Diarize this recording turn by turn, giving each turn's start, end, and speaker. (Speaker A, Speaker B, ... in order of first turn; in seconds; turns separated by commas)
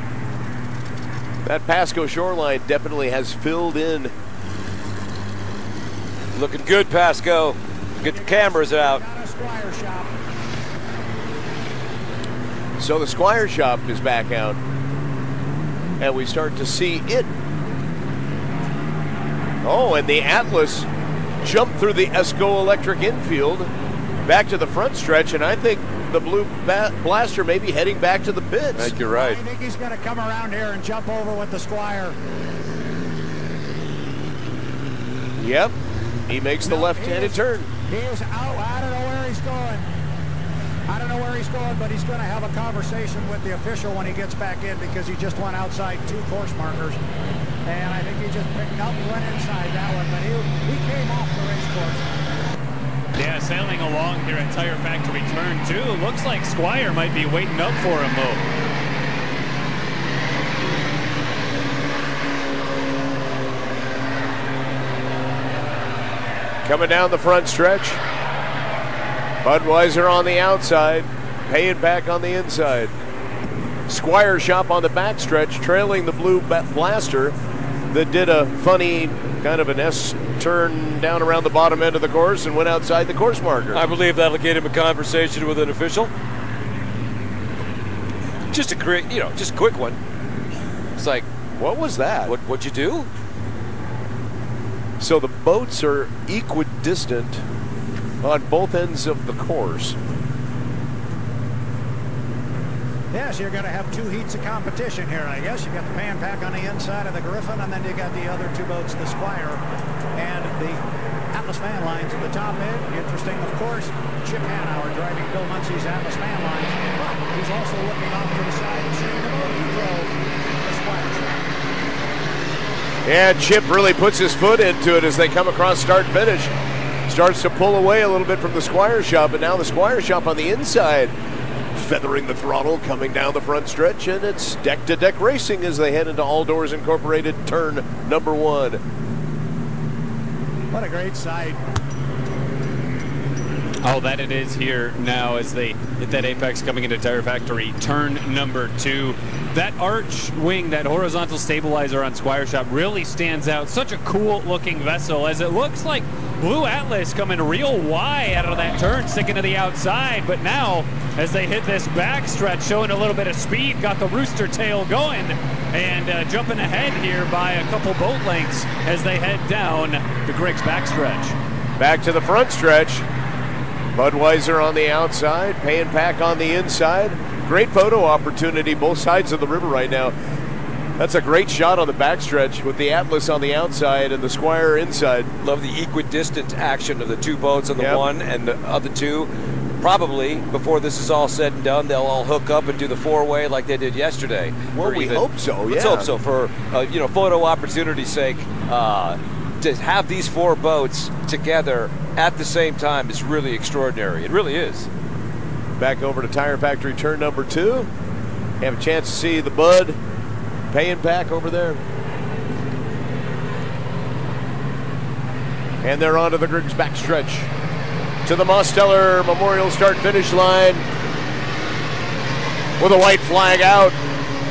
Speaker A: 1.4-4.1, Speaker B: 6.3-9.0, Speaker C: 8.0-10.1, Speaker A: 12.8-14.6, Speaker A: 16.0-17.3, Speaker A: 19.6-20.9, Speaker A: 21.4-23.7, Speaker A: 24.2-28.9, Speaker B: 28.8-29.4, Speaker C: 29.1-32.2, Speaker A: 35.4-35.7, Speaker A: 36.3-37.7, Speaker C: 36.6-39.9, Speaker C: 40.9-47.0, Speaker C: 47.7-52.1, Speaker D: 53.2-58.4, Speaker A: 66.7-68.0, Speaker A: 69.4-72.9, Speaker A: 73.9-77.3, Speaker A: 77.9-83.8, Speaker B: 83.7-86.1, Speaker B: 88.5-90.0, Speaker B: 91.0-91.3, Speaker A: 91.6-92.3, Speaker B: 92.3-93.1, Speaker A: 95.0-97.4, Speaker A: 98.2-100.0, Speaker C: 103.1-109.6, Speaker C: 110.2-121.4, Speaker A: 123.0-126.5, Speaker A: 127.1-131.1, Speaker A: 131.7-138.8, Speaker C: 140.7-141.6, Speaker D: 143.8-171.4, Speaker A: 171.8-173.1, Speaker A: 173.9-180.1, Speaker A: 181.0-185.3, Speaker B: 185.4-204.9, Speaker A: 187.8-188.0, Speaker A: 194.8-196.1, Speaker A: 205.8-207.9, Speaker A: 208.6-210.0, Speaker A: 210.7-211.8, Speaker A: 215.8-217.5, Speaker A: 218.2-220.8, Speaker A: 222.8-224.0